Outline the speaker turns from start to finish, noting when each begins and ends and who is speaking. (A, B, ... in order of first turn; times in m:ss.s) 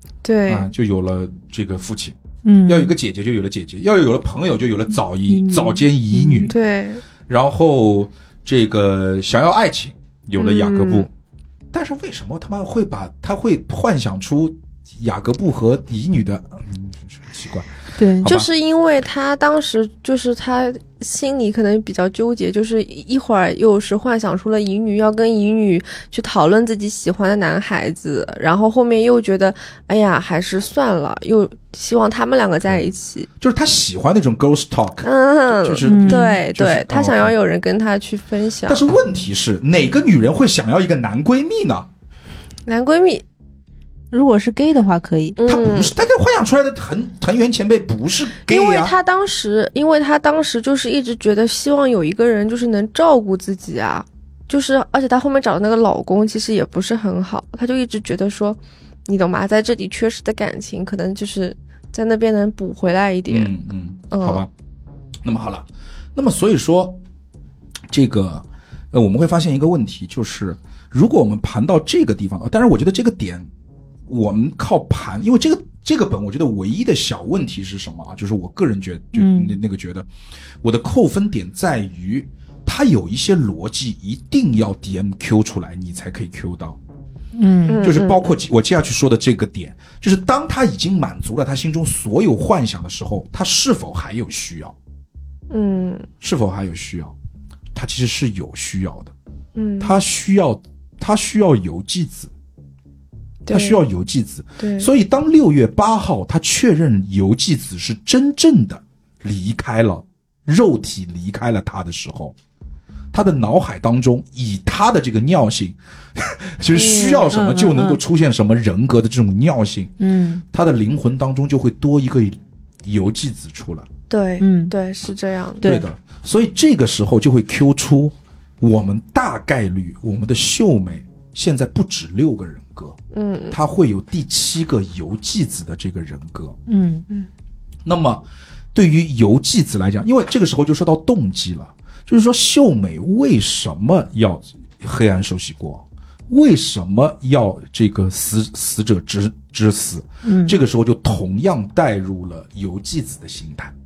0:00.2-0:00.7 A
0:00.4-0:06.6 B
0:02.4-0:02.9 C
0:05.2-0:06.5 C
0:06.5-0:07.0 A
0:07.3-0:11.1 B
0:10.4-0:11.1 A
0:11.7-0:17.7 B
0:18.0-0:18.3 C
0:18.2-0:18.5 B
0:18.2-0:33.3 A
0:33.4-0:37.3 B
0:35.0-0:38.8 A
0:35.8-0:36.4 C
0:38.7-0:41.9 B
0:42.6-0:43.2 A
0:44.1-0:45.4 C
0:45.4-0:45.9 A
0:45.4-0:48.9 B
0:48.5-1:03.5 A
1:03.3-1:04.5 B
1:04.1-1:04.4 A
1:05.2-1:07.0 B
1:07.9-1:13.5 B
1:14.1-1:20.1 B
1:19.1-1:19.6 C
1:20.6-1:26.8 B
1:27.4-1:27.9 C
1:27.7-1:28.3 A
1:27.8-1:34.7 B
1:35.5-1:36.1 A
1:36.2-1:37.1 B
1:37.7-1:39.1 B
1:39.6-1:40.0 A
1:39.8-1:42.3 B
1:43.4-1:43.8 A
1:43.5-1:52.3 B
1:44.6-1:44.9 A
1:53.1-1:59.9 B
1:56.7-1:57.3 A
1:57.3-1:58.0 C
2:00.0-2:00.4 C
2:00.5-2:03.9 B
2:04.1-2:05.7 A
2:04.4-2:04.7 C
2:05.6-2:05.9 C
2:05.6-2:13.0 B
2:13.1-2:13.6 A
2:13.5-2:16.6 B
2:16.7-2:17.1 C
2:17.8-2:33.7 B
2:30.2-2:30.6 C